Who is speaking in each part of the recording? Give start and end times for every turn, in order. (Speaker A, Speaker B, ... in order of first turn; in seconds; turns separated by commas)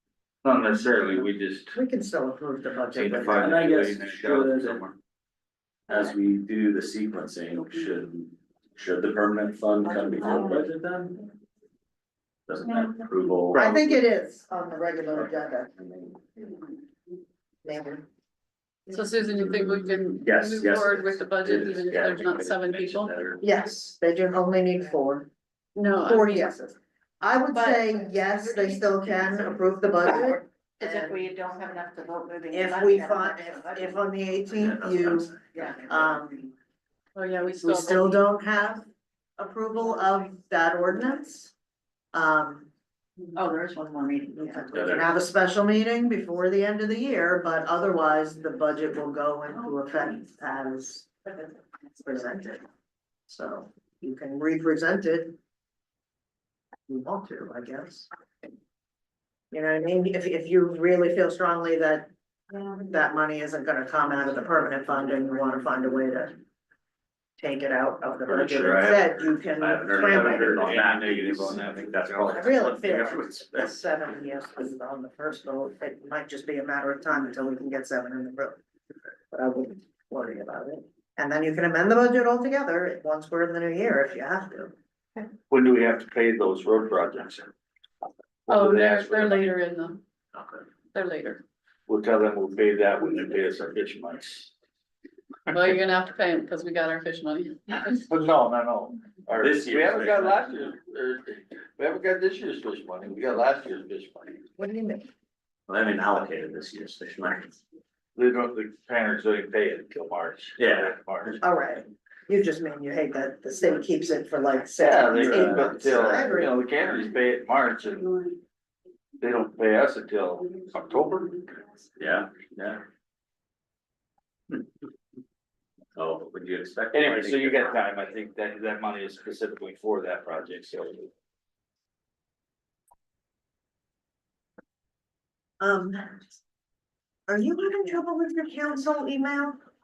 Speaker A: 0.4-1.8, Speaker B: 1.7-3.5, Speaker A: 2.9-4.9, Speaker C: 3.2-4.8, Speaker C: 5.9-11.3, Speaker D: 9.9-10.6, Speaker C: 12.5-13.7, Speaker B: 13.5-15.7, Speaker C: 15.8-16.1, Speaker B: 17.6-18.1, Speaker E: 18.9-23.1, Speaker C: 19.6-23.4, Speaker B: 23.4-31.2, Speaker E: 25.8-26.5, Speaker E: 27.5-27.9, Speaker D: 30.8-34.0, Speaker B: 32.5-36.5, Speaker D: 35.5-35.8, Speaker E: 37.1-38.3, Speaker B: 37.5-38.9, Speaker B: 39.4-41.5, Speaker B: 42.1-42.7, Speaker D: 43.3-44.8, Speaker B: 44.3-51.1, Speaker C: 44.7-45.1, Speaker B: 52.0-52.6, Speaker B: 53.3-55.4, Speaker B: 56.9-58.1, Speaker B: 59.5-66.3, Speaker B: 67.4-70.7, Speaker A: 68.3-69.3, Speaker C: 69.6-73.8, Speaker A: 70.0-72.7, Speaker B: 72.3-78.6, Speaker B: 79.3-84.7, Speaker A: 85.5-87.5, Speaker A: 88.5-89.4, Speaker E: 88.5-90.0, Speaker E: 90.9-91.4, Speaker A: 91.9-94.5, Speaker E: 95.5-98.0, Speaker A: 98.1-104.4, Speaker C: 99.4-100.6, Speaker B: 104.6-105.1, Speaker C: 105.7-107.5, Speaker A: 108.2-111.4, Speaker C: 110.6-111.3, Speaker B: 111.4-116.5, Speaker A: 114.8-118.3, Speaker C: 115.1-116.1, Speaker A: 119.2-121.4, Speaker C: 122.0-122.8, Speaker C: 126.0-127.8, Speaker A: 126.9-131.1, Speaker B: 135.6-136.1, Speaker B: 137.3-139.6